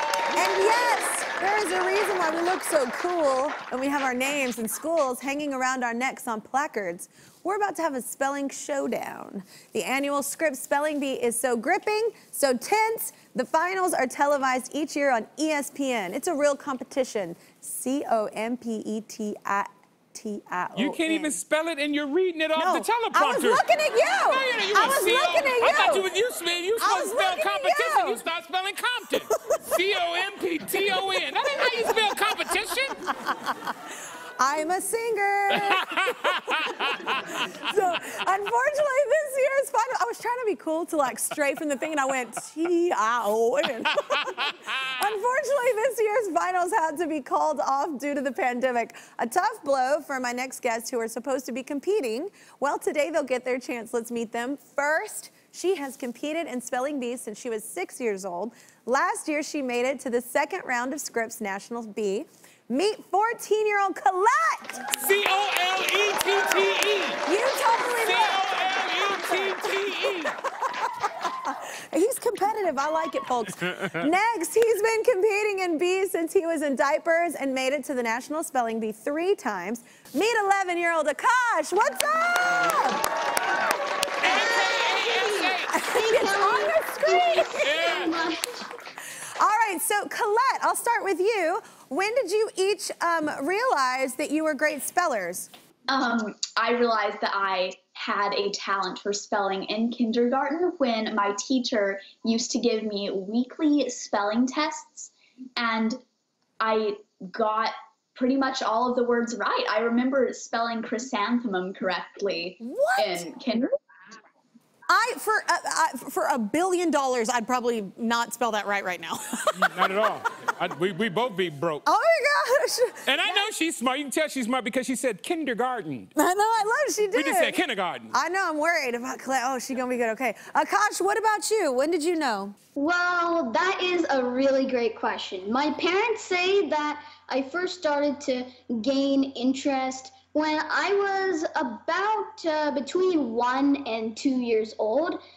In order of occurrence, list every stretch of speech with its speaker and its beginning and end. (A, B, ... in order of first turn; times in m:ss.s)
0:00.3-0:21.4 A
0:20.8-0:23.6 B
0:22.6-0:26.1 A
0:24.3-0:33.0 B
0:26.8-0:28.2 A
0:29.4-0:29.8 A
0:31.6-0:32.0 A
0:33.1-0:33.7 A
0:34.4-1:04.9 A
0:35.5-0:37.2 B
0:43.9-0:44.8 B
1:04.9-1:07.2 B
1:07.2-1:08.4 A
1:08.0-1:10.4 B
1:09.0-1:10.2 A
1:10.8-1:23.0 A
1:24.2-1:25.8 B
1:25.7-1:28.0 A
1:26.0-1:28.4 C
1:27.6-1:28.2 B
1:29.4-1:35.5 A
1:35.9-1:46.0 D
1:46.6-1:53.8 D
1:52.6-1:53.6 A
1:54.9-1:59.8 A
1:59.6-2:01.8 B
2:01.8-2:03.5 A
2:03.1-2:06.1 B
2:06.2-2:07.6 A
2:07.1-2:08.1 B
2:08.1-2:12.6 A
2:12.8-2:25.2 C